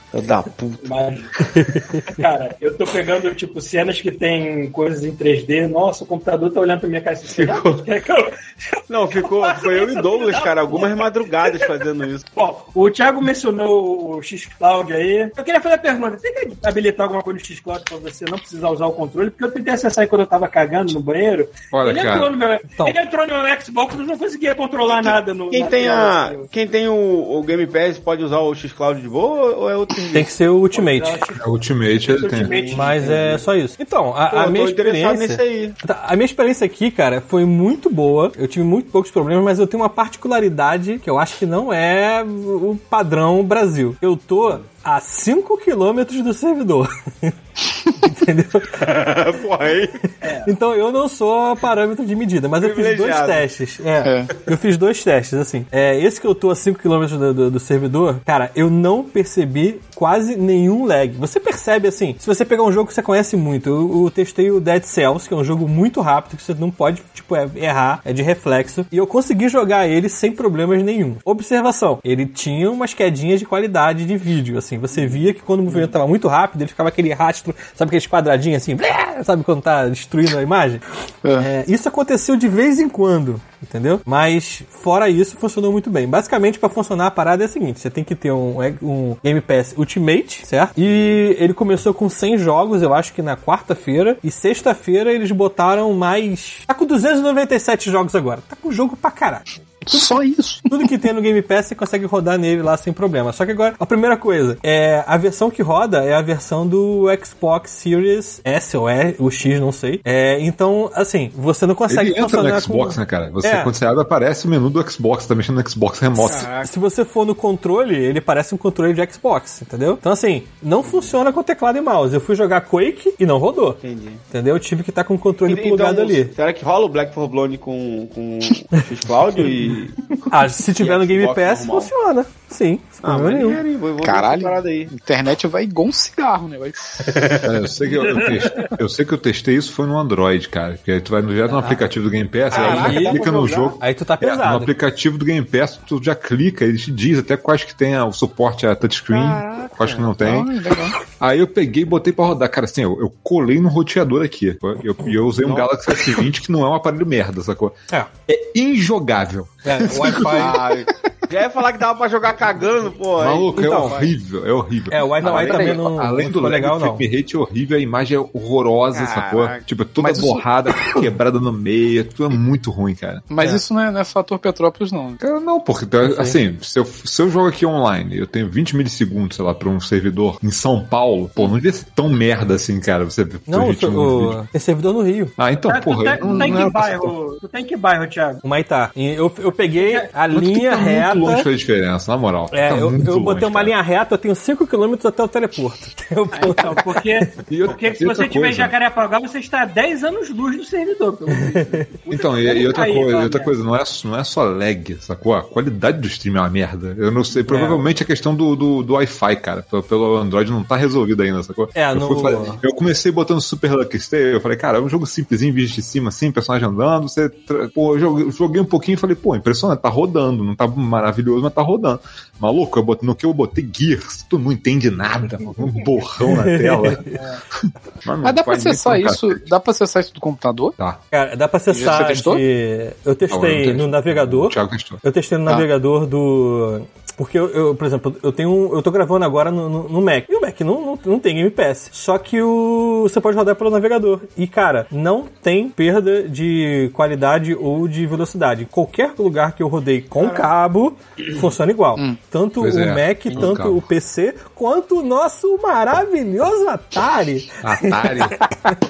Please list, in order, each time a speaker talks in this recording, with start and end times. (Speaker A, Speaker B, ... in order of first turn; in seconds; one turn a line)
Speaker A: 0.1-0.9
Speaker B: 0.8-1.4
Speaker C: 1.5-2.1
Speaker B: 2.1-11.8
Speaker A: 7.3-7.8
Speaker A: 8.9-12.3
Speaker B: 12.3-26.5
Speaker D: 21.7-22.3
Speaker A: 24.9-30.3
Speaker C: 30.1-31.2
Speaker B: 30.7-33.4
Speaker D: 31.4-32.6
Speaker A: 32.1-33.4
Speaker C: 32.7-47.4
Speaker A: 34.3-35.8
Speaker C: 47.9-48.7
Speaker A: 48.8-50.0
Speaker B: 50.2-50.5
Speaker C: 50.4-80.8
Speaker A: 52.6-53.5
Speaker E: 54.0-54.3
Speaker E: 81.2-81.5
Speaker C: 81.4-100.1
Speaker E: 99.9-100.9
Speaker C: 100.7-113.7
Speaker D: 111.9-116.5
Speaker C: 116.2-123.8
Speaker A: 116.2-116.7
Speaker A: 120.9-121.1
Speaker A: 123.8-124.2
Speaker C: 124.3-126.3
Speaker A: 125.5-131.9
Speaker C: 130.3-133.6
Speaker A: 133.0-134.9
Speaker E: 134.0-137.1
Speaker A: 137.0-137.6
Speaker D: 137.4-150.5
Speaker B: 138.1-138.7
Speaker E: 141.5-141.9
Speaker C: 142.5-143.2
Speaker A: 142.5-143.8
Speaker E: 142.6-143.2
Speaker B: 142.8-143.7
Speaker C: 143.8-144.7
Speaker A: 149.1-150.2
Speaker E: 150.2-151.0
Speaker D: 151.1-157.8
Speaker A: 155.4-155.8
Speaker D: 158.3-160.6
Speaker C: 159.6-160.6
Speaker A: 160.3-164.1
Speaker D: 163.2-173.3
Speaker C: 163.6-164.0
Speaker C: 164.9-167.0
Speaker E: 165.2-166.0
Speaker A: 168.9-169.4
Speaker E: 169.3-170.9
Speaker E: 173.3-175.2
Speaker D: 175.2-184.4
Speaker C: 176.0-176.4
Speaker C: 183.5-185.4
Speaker D: 185.4-187.1
Speaker B: 185.7-188.4
Speaker C: 188.4-191.5
Speaker B: 189.8-190.1
Speaker D: 190.3-193.7
Speaker C: 192.5-196.8
Speaker B: 196.3-203.5
Speaker D: 197.4-198.7
Speaker C: 201.3-201.8
Speaker D: 202.1-227.1
Speaker C: 207.4-207.8
Speaker C: 211.8-212.6
Speaker C: 226.2-227.1
Speaker D: 227.6-229.4
Speaker E: 228.2-230.8
Speaker C: 231.1-258.4
Speaker E: 231.7-232.4
Speaker D: 233.3-235.0
Speaker A: 250.2-250.5
Speaker D: 252.6-253.8
Speaker D: 257.6-258.5